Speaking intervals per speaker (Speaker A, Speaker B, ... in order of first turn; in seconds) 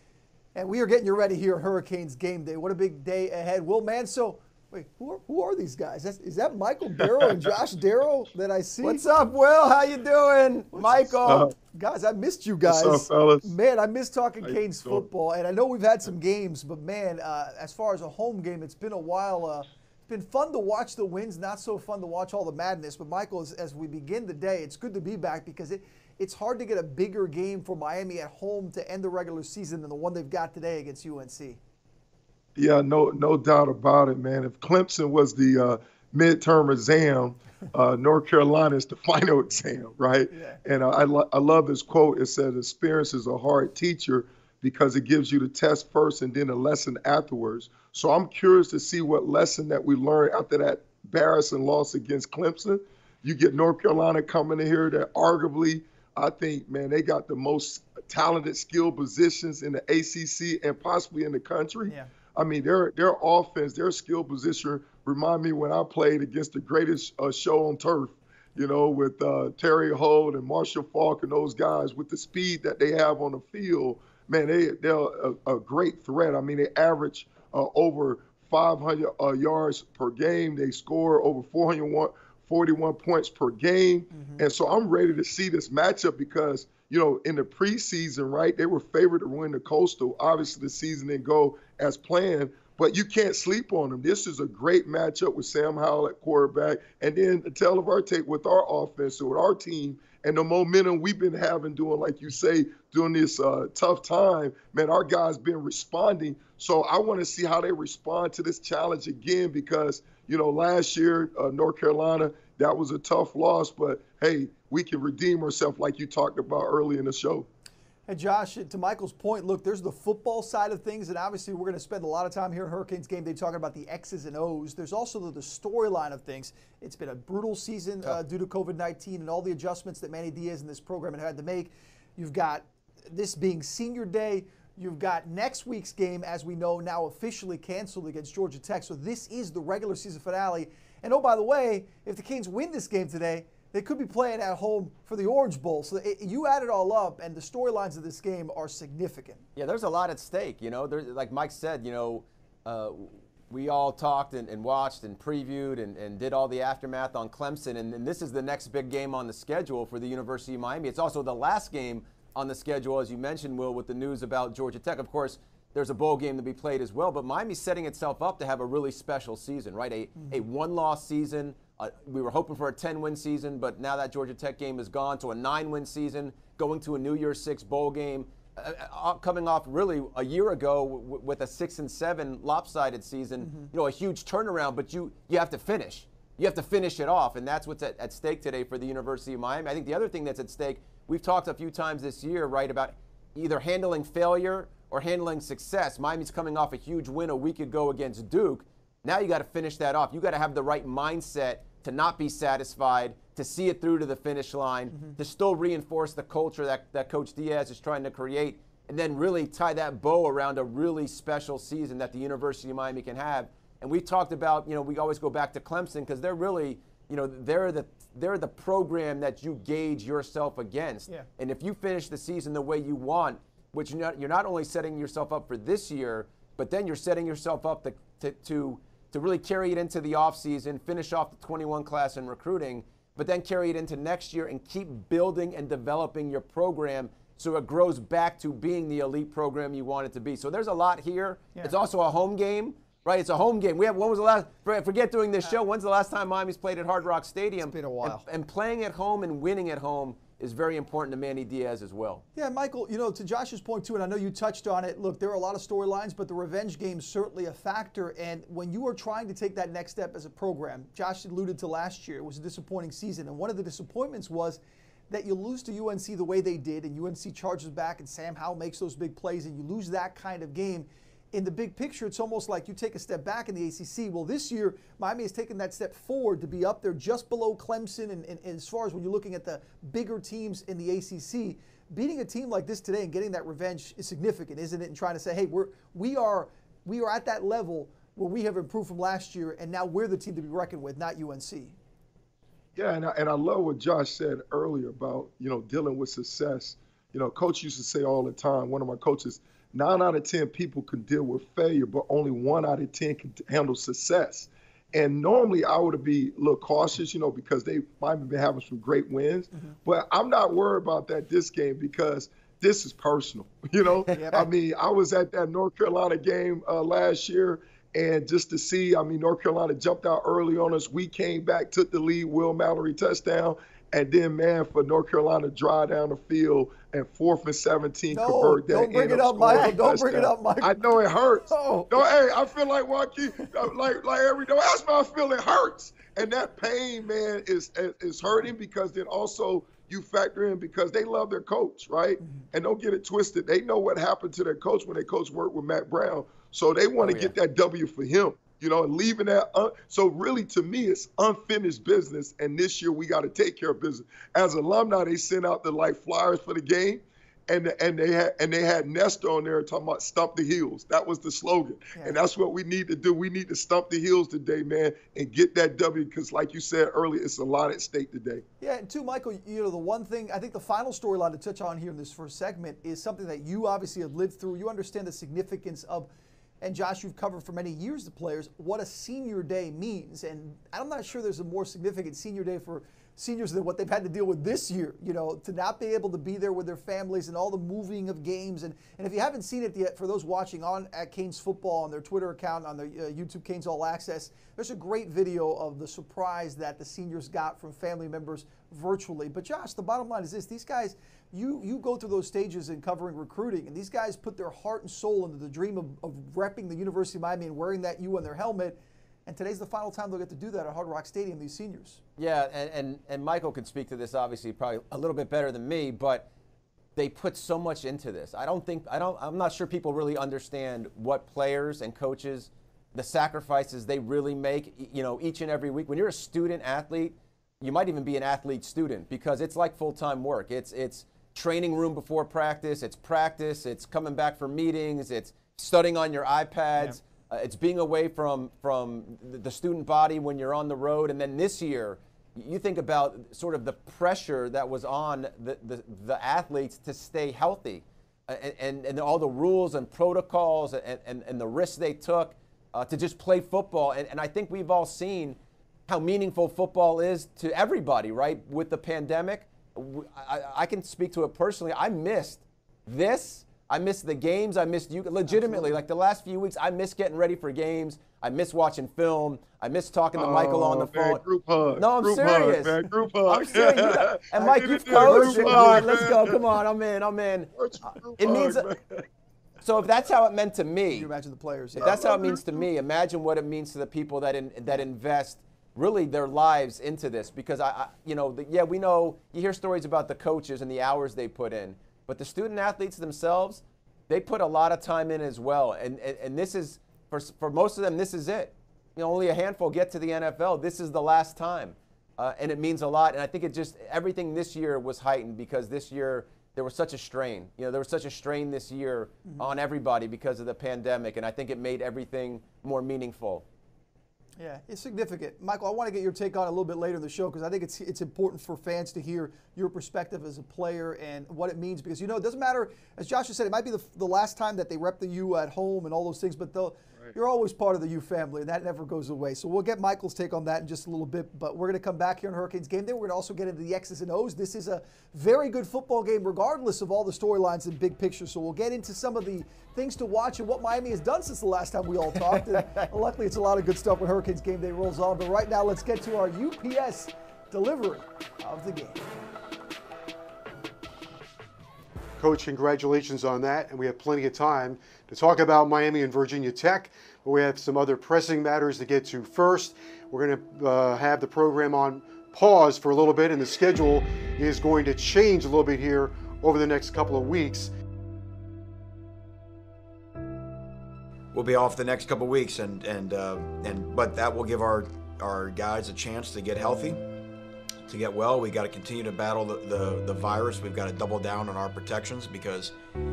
Speaker A: 0.5-31.6, 40.3-40.6, 84.1-84.4, 118.1-149.4, 170.2-170.4, 183.4-183.7, 204.9-205.2, 247.7-248.2, 252.3-291.8, 314.1-314.5, 328.1-330.8, 331.5-332.0, 342.2-342.5, 368.6-376.1, 376.6-412.0, 465.2-465.7, 473.3-476.1, 480.9-482.4, 514.4-549.0
Speaker B: 10.7-11.5, 12.6-13.5, 14.4-15.1, 32.5-117.5, 292.7-368.4, 470.1-476.4, 477.6-478.8, 481.9-482.3
Speaker C: 149.6-252.2, 347.0-347.3, 412.2-416.3, 416.9-471.2, 471.8-472.8, 473.3-477.5, 478.2-478.6, 479.6-481.1, 481.8-513.4, 542.5-542.9
Speaker D: 552.2-567.7
Speaker E: 571.3-577.0, 577.9-582.7